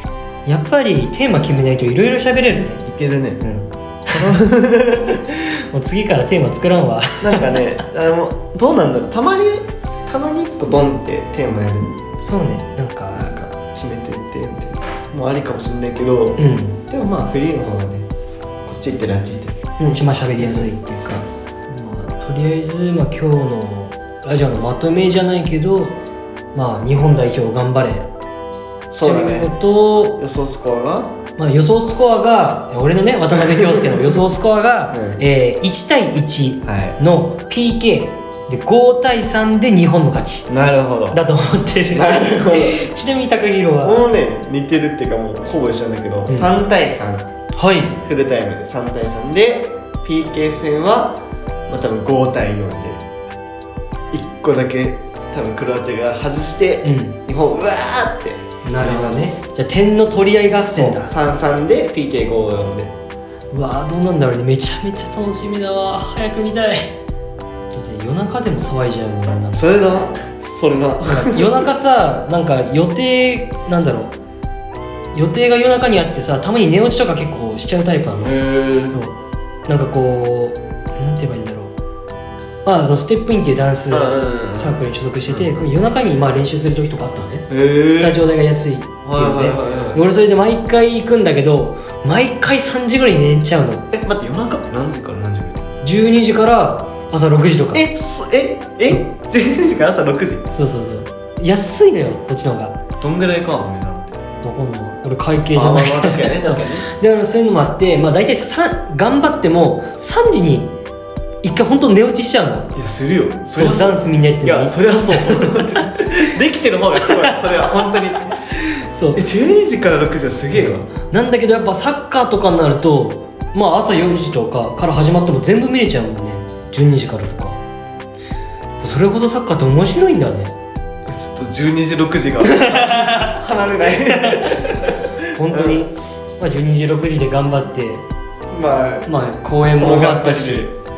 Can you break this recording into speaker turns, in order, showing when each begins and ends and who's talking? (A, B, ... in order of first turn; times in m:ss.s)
0:00.4-0:02.8 A
0:02.8-0:03.4 B
0:03.4-0:04.4 A
0:04.1-0:05.2 B
0:05.2-0:07.8 A
0:07.2-0:12.0 B
0:12.2-0:13.3 A
0:13.1-0:18.1 B
0:16.4-0:16.8 A
0:18.6-0:19.6 B
0:19.8-0:26.0 A
0:20.4-0:21.3 B
0:26.5-0:28.1 A
0:28.9-0:29.5 B
0:29.0-0:30.2 A
0:30.2-0:31.2 B
0:31.4-0:40.5 A
0:33.3-0:34.2 B
0:34.9-0:35.2 B
0:36.6-0:37.0 B
0:40.5-0:41.2 B
0:41.1-0:44.1 A
0:41.9-0:42.8 B
0:43.8-0:47.3 B
0:47.5-0:48.0 A
0:48.0-0:53.0 B
0:54.1-0:59.4 B
0:56.8-0:57.2 A
0:58.6-1:01.1 A
1:00.7-1:02.9 B
1:03.5-1:07.0 A
1:07.7-1:09.8 A
1:09.5-1:11.6 B
1:11.0-1:14.1 A
1:15.1-1:18.4 A
1:18.2-1:19.0 B
1:19.7-1:21.7 A
1:22.6-1:33.9 A
1:23.9-1:25.7 B
1:27.5-1:28.2 B
1:29.0-1:30.0 B
1:33.9-1:35.6 B
1:35.8-1:37.9 A
1:37.7-1:40.5 B
1:40.5-1:42.8 A
1:43.0-1:44.2 B
1:44.4-1:50.7 A
1:45.5-1:46.9 B
1:51.4-1:52.7 A
1:52.7-1:58.3 B
1:53.5-1:55.7 A
1:58.6-1:59.2 A
1:59.1-2:00.9 B
2:00.5-2:07.6 A
2:08.8-2:10.5 A
2:11.0-2:15.8 B
2:12.4-2:13.4 A
2:14.1-2:18.0 A
2:18.5-2:20.7 B
2:19.0-2:20.7 A